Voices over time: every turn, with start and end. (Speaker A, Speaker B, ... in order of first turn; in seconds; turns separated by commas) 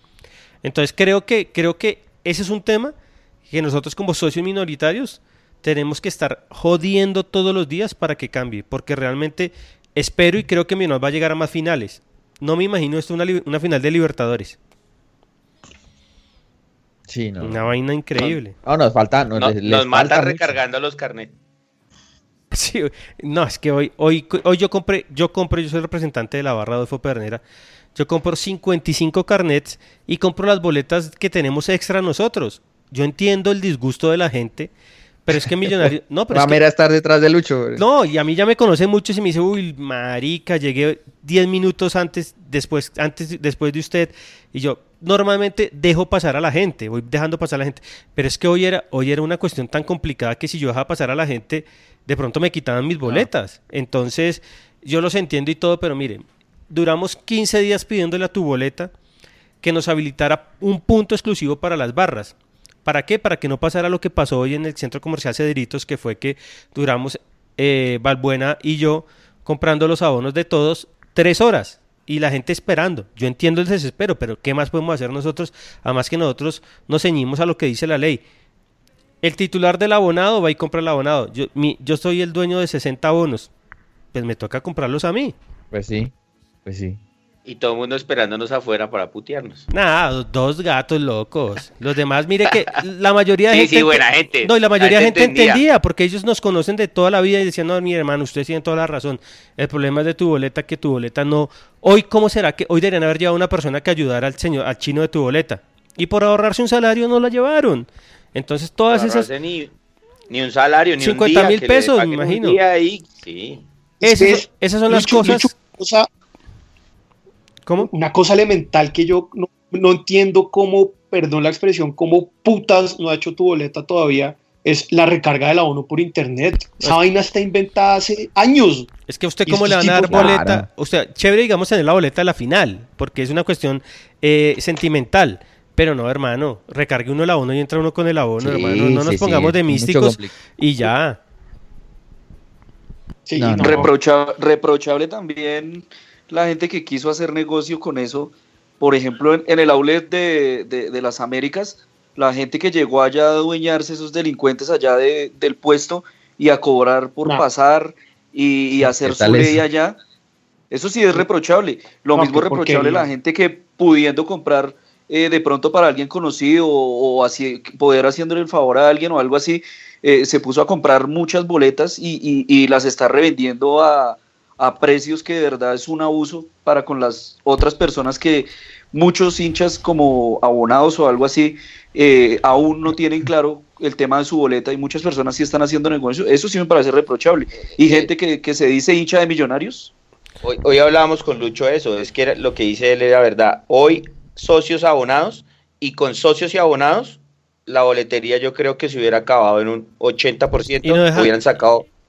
Speaker A: 0.6-2.9, Speaker A: 3.5-14.6, Speaker B: 17.1-20.6, Speaker A: 17.4-18.6, Speaker C: 19.4-21.3, Speaker A: 22.5-27.4, Speaker A: 27.9-34.7, Speaker A: 35.3-36.6, Speaker B: 35.3-37.8, Speaker A: 37.8-58.9, Speaker A: 59.6-62.3, Speaker A: 62.9-78.2, Speaker A: 79.2-83.5, Speaker A: 84.1-85.3, Speaker B: 85.7-86.1, Speaker B: 86.7-87.0, Speaker C: 87.5-89.7, Speaker A: 89.7-109.3, Speaker C: 93.5-95.6, Speaker C: 108.9-109.7, Speaker C: 110.3-113.6, Speaker A: 111.0-112.6, Speaker D: 114.0-116.1, Speaker A: 114.0-115.5, Speaker D: 117.8-128.9, Speaker A: 129.1-141.2, Speaker D: 129.5-130.4, Speaker B: 130.1-130.7, Speaker B: 138.4-140.3, Speaker D: 143.3-143.9, Speaker B: 143.4-143.9, Speaker E: 143.6-160.0, Speaker B: 158.8-159.6, Speaker E: 160.7-189.9, Speaker D: 162.2-163.1, Speaker C: 187.7-188.1, Speaker C: 190.4-201.8, Speaker A: 200.8-201.3